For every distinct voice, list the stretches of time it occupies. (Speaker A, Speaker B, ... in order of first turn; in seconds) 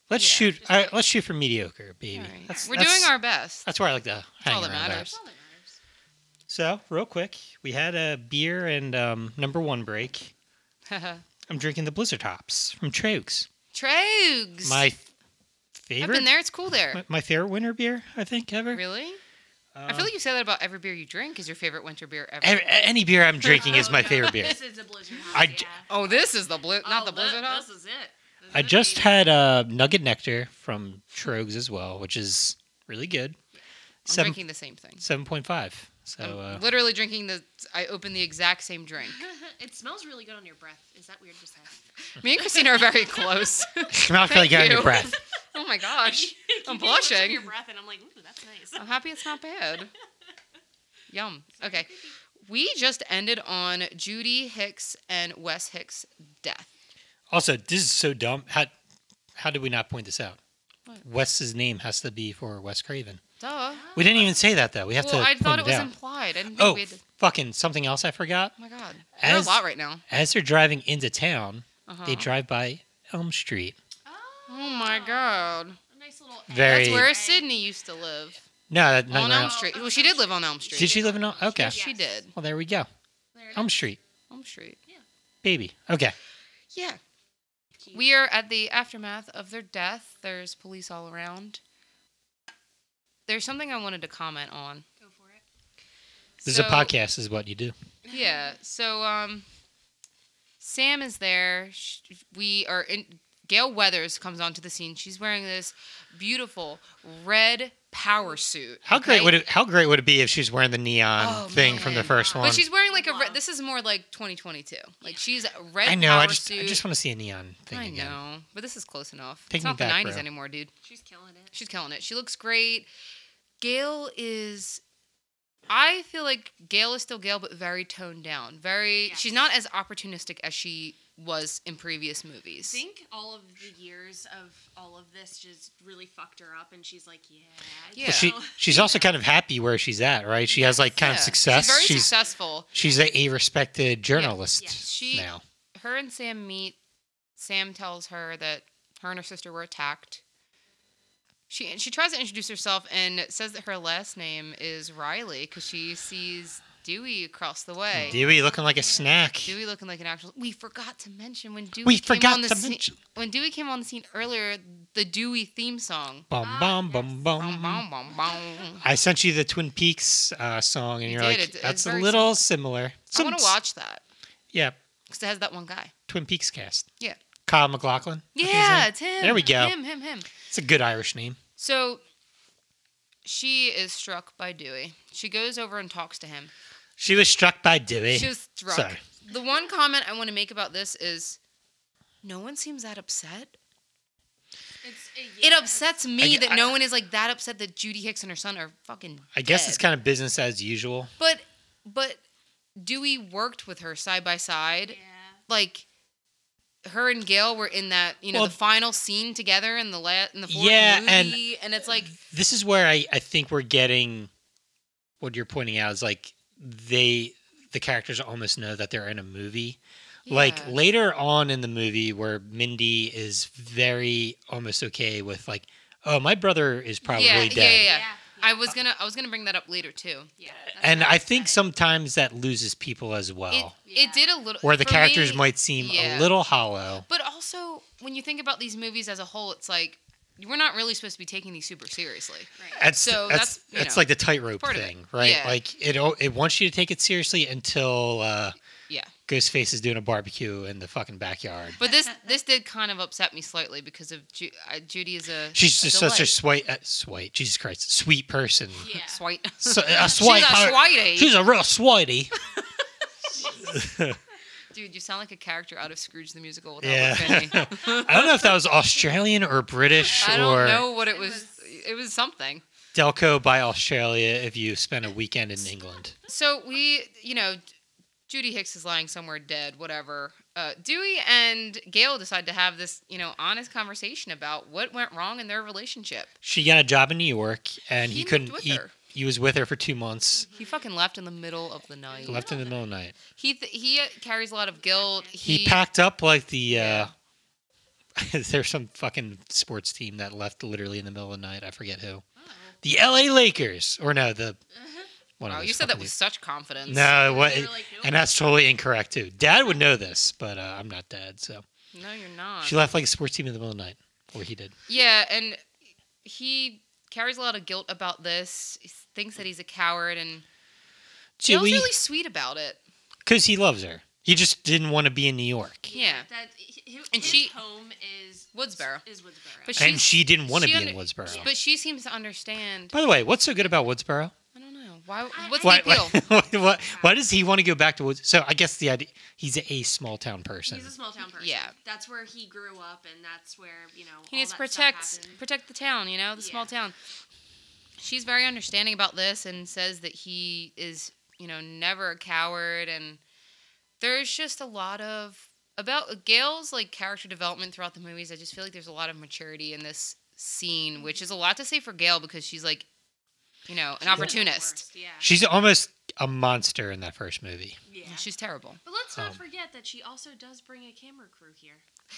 Speaker A: 0.1-3.1, 3.6-5.1, 6.5-10.3, 11.5-13.5, 14.6-15.0, 15.8-16.3, 16.9-18.8, 19.7-20.1, 22.4-24.6, 25.3-25.7, 28.5-33.4, 34.0-34.4, 35.0-36.6, 43.9-45.2, 57.3-58.7, 59.4-60.4, 61.0-63.2, 63.9-65.9, 66.5-68.5, 69.2-73.8, 76.5-77.1, 78.7-79.5, 80.8-81.8, 82.3-82.9, 83.5-84.0, 85.4-86.1, 96.4-97.7, 108.8-112.6, 115.8-118.2, 119.5-120.2, 138.0-142.1, 142.7-145.4, 157.9-159.6, 161.8-162.9, 166.3-167.8, 168.8-173.5, 176.1-176.9, 177.4-179.8, 180.4-181.4, 187.0-189.0, 196.2-196.8, 199.3-201.1, 210.5-211.4, 212.1-214.3, 215.2-227.9, 230.7-233.7, 234.6-237.1, 242.8-248.6, 249.3-251.8, 255.5-258.9, 259.6-262.4, 263.6-264.2, 266.8-270.8, 272.9-276.1, 286.4-290.5, 292.2-293.1, 295.4-297.1, 298.1-302.2, 302.8-304.6, 305.4-306.1, 306.9-311.6, 312.6-314.7, 321.4-321.9, 323.2-325.9, 329.8-331.5, 332.9-334.3, 335.6-340.9, 365.2-367.8
Speaker B: 0.1-0.5, 2.1-3.6, 4.4-5.2, 10.9-11.2, 13.7-14.8, 16.0-17.0, 18.7-19.2, 19.9-22.7, 23.4-24.1, 25.9-27.7, 34.0-35.0, 36.2-39.2, 42.0-47.5, 48.8-49.9, 51.1-51.9, 52.4-56.7, 63.4-63.9, 65.0-67.0, 68.6-70.0, 71.9-72.3, 74.5-75.8, 76.6-78.4, 79.1-82.3, 84.3-84.8, 86.7-87.0, 87.9-91.6, 93.3-94.8, 96.4-96.9, 98.1-99.5, 100.6-109.3, 111.2-116.8, 117.7-120.7, 121.5-122.9, 123.6-124.8, 125.7-132.8, 137.9-138.4, 141.0-142.7, 144.1-146.8, 147.4-150.2, 151.5-158.2, 159.4-166.3, 167.4-168.8, 171.1-172.4, 173.1-174.0, 175.1-175.9, 178.3-180.3, 181.6-182.0, 183.2-186.5, 188.1-191.4, 192.2-193.5, 195.4-199.8, 201.2-202.2, 202.8-205.8, 206.8-212.1, 220.2-220.8, 227.1-230.3, 233.5-236.3, 237.1-244.1, 244.6-245.6, 251.8-256.4, 258.9-261.4, 264.7-268.5, 270.1-272.6, 276.3-277.6, 278.3-286.3, 288.0-288.9, 290.5-292.5, 293.3-295.8, 296.7-297.1, 305.5-307.3, 311.9-312.9, 314.9-315.6, 316.2-320.4, 321.4-322.8, 325.9-326.3, 327.1-327.5, 328.5-329.0, 329.6-333.0, 334.5-336.2, 341.4-341.7, 344.3-346.9, 348.0-353.2, 354.0-362.9, 363.7-364.9, 368.0-368.8
Speaker C: 0.6-1.0, 2.4-2.7, 4.7-5.8, 23.5-29.2, 39.0-41.8, 42.4-43.5, 45.9-49.0, 51.6-52.1, 63.7-64.4, 74.0-77.5, 79.3-82.2, 83.3-83.8, 95.0-95.4, 98.0-98.5, 111.6-113.4, 120.8-121.5, 129.0-129.4, 132.6-139.1, 140.5-142.9, 144.5-144.8, 158.0-159.1, 166.4-167.2, 168.2-168.7, 194.8-195.9, 204.9-205.4, 227.1-228.6, 230.4-231.6, 233.8-234.3, 258.8-259.2, 263.3-263.8, 267.5-268.3, 270.0-271.7, 290.4-290.9, 292.1-292.7, 294.8-295.4, 302.4-302.8, 304.8-305.1, 306.8-308.4, 325.9-329.8, 331.2-331.5, 335.3-337.2, 340.6-345.4, 346.4-346.7, 360.9-361.3, 364.0-365.3, 367.9-368.3, 368.8-371.8